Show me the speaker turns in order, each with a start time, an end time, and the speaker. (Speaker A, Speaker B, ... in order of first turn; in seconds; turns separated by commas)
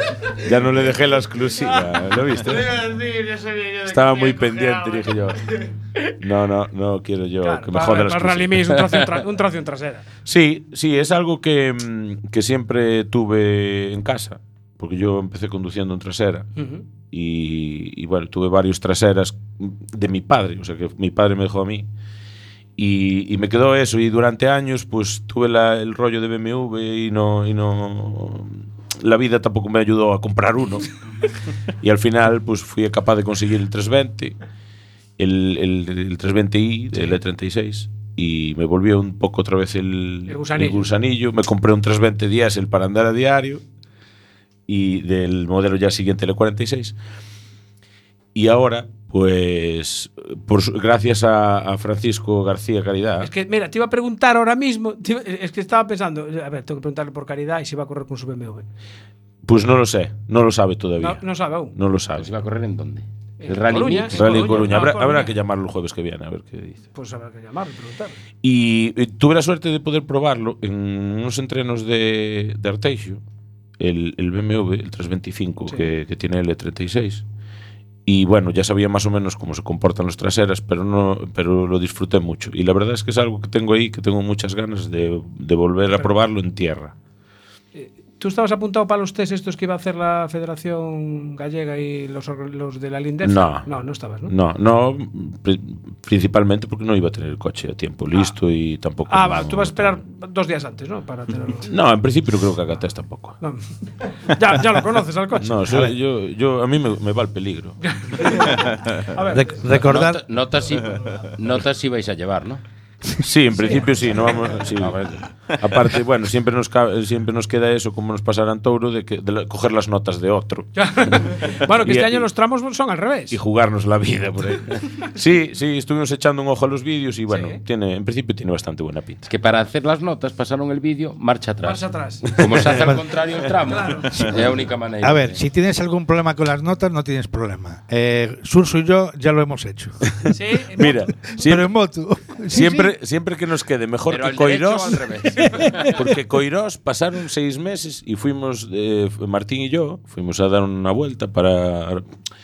Speaker A: 0.4-2.9, Speaker B: 2.8-4.8, Speaker A: 3.8-5.5, Speaker A: 6.2-8.9, Speaker C: 7.4-10.1, Speaker A: 10.2-16.5, Speaker C: 16.6-16.8, Speaker A: 17.1-21.9, Speaker A: 22.8-30.9, Speaker A: 31.8-34.4, Speaker A: 35.2-43.6, Speaker C: 40.3-40.9, Speaker A: 44.7-47.0, Speaker A: 48.3-53.3, Speaker C: 53.2-58.6, Speaker A: 59.4-62.3, Speaker C: 61.0-61.7, Speaker D: 62.1-64.7, Speaker C: 63.4-65.3, Speaker A: 64.1-66.8, Speaker C: 66.9-68.2, Speaker A: 68.4-73.2, Speaker A: 73.8-77.2, Speaker A: 78.0-86.9, Speaker C: 87.7-94.3, Speaker A: 93.2-93.7, Speaker A: 94.2-100.0, Speaker C: 99.1-101.7, Speaker A: 101.6-103.4, Speaker C: 103.4-105.6, Speaker A: 105.4-108.3, Speaker C: 107.8-109.6, Speaker E: 109.3-110.2, Speaker D: 109.7-112.6, Speaker A: 113.2-122.3, Speaker C: 113.6-114.3, Speaker D: 114.8-115.3, Speaker C: 120.7-123.4, Speaker A: 123.3-129.3, Speaker C: 127.3-127.6, Speaker D: 129.3-135.4, Speaker C: 131.6-132.9, Speaker C: 133.5-134.3, Speaker E: 134.1-134.5, Speaker E: 135.0-140.0, Speaker C: 140.3-141.4, Speaker A: 140.8-141.8, Speaker E: 141.5-142.9, Speaker A: 142.5-145.1, Speaker D: 144.1-145.9, Speaker E: 145.6-145.8, Speaker A: 145.9-152.1